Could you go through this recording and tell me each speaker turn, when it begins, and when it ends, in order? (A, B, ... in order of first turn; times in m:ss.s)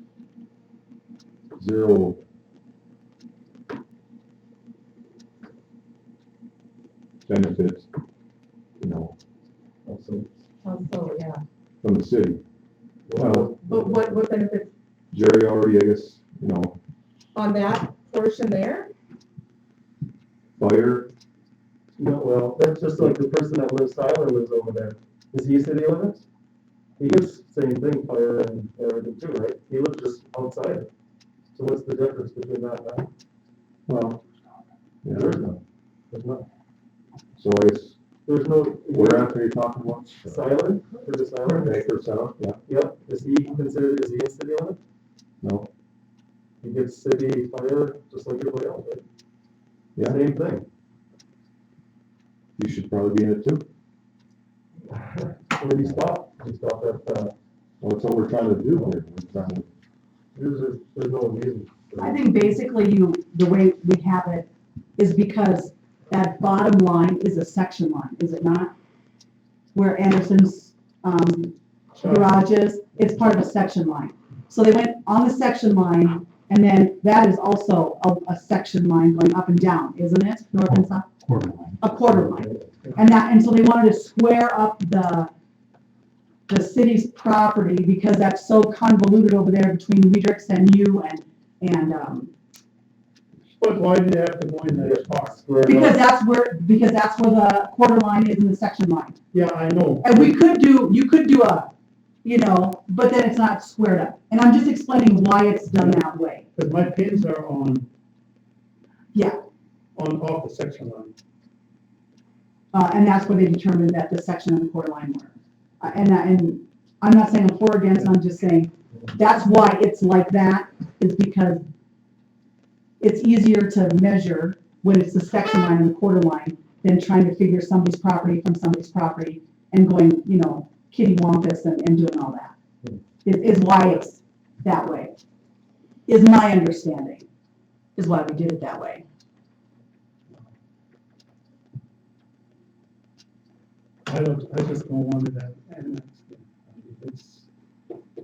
0:01.5-0:02.2 A
0:07.3-0:07.9 A
0:08.8-0:09.1 A
0:09.8-0:10.3 B
0:10.6-0:11.4 C
0:11.8-0:12.4 A
0:13.1-0:14.1 B
0:13.2-0:13.5 A
0:13.6-0:14.7 C
0:15.1-0:16.8 A
0:17.3-0:18.9 C
0:20.6-0:21.1 A
0:22.0-0:26.2 B
0:27.0-0:30.9 B
0:31.5-0:33.1 B
0:33.9-0:34.2 A
0:35.0-0:35.4 A
0:35.1-0:36.5 B
0:37.4-0:38.0 A
0:38.2-0:39.4 B
0:38.9-0:40.4 A
0:40.2-0:41.9 B
0:41.4-0:42.6 A
0:42.6-0:44.8 B
0:45.4-0:45.7 A
0:46.6-0:49.0 B
0:50.0-0:50.2 A
0:50.0-0:50.7 B
0:52.6-0:53.7 A
0:54.9-0:57.3 B
0:57.8-0:59.7 A
1:00.3-1:02.3 B
1:02.0-1:08.7 D
1:09.7-1:21.2 D
1:12.0-1:12.3 E
1:21.8-1:25.3 D
1:22.2-1:22.7 B
1:26.5-1:32.3 D
1:33.5-1:35.4 E
1:34.8-1:36.1 B
1:35.6-1:39.2 D
1:39.3-1:40.3 E
1:40.0-1:41.7 D
1:42.2-1:46.5 D
1:46.6-1:47.9 E
1:49.1-1:49.4 D
1:49.9-1:51.1 E
1:52.7-2:01.6 D
2:03.0-2:12.5 D
2:13.2-2:15.2 D
2:16.1-2:17.3 D
2:18.0-2:19.0 D
2:24.0-2:27.5 E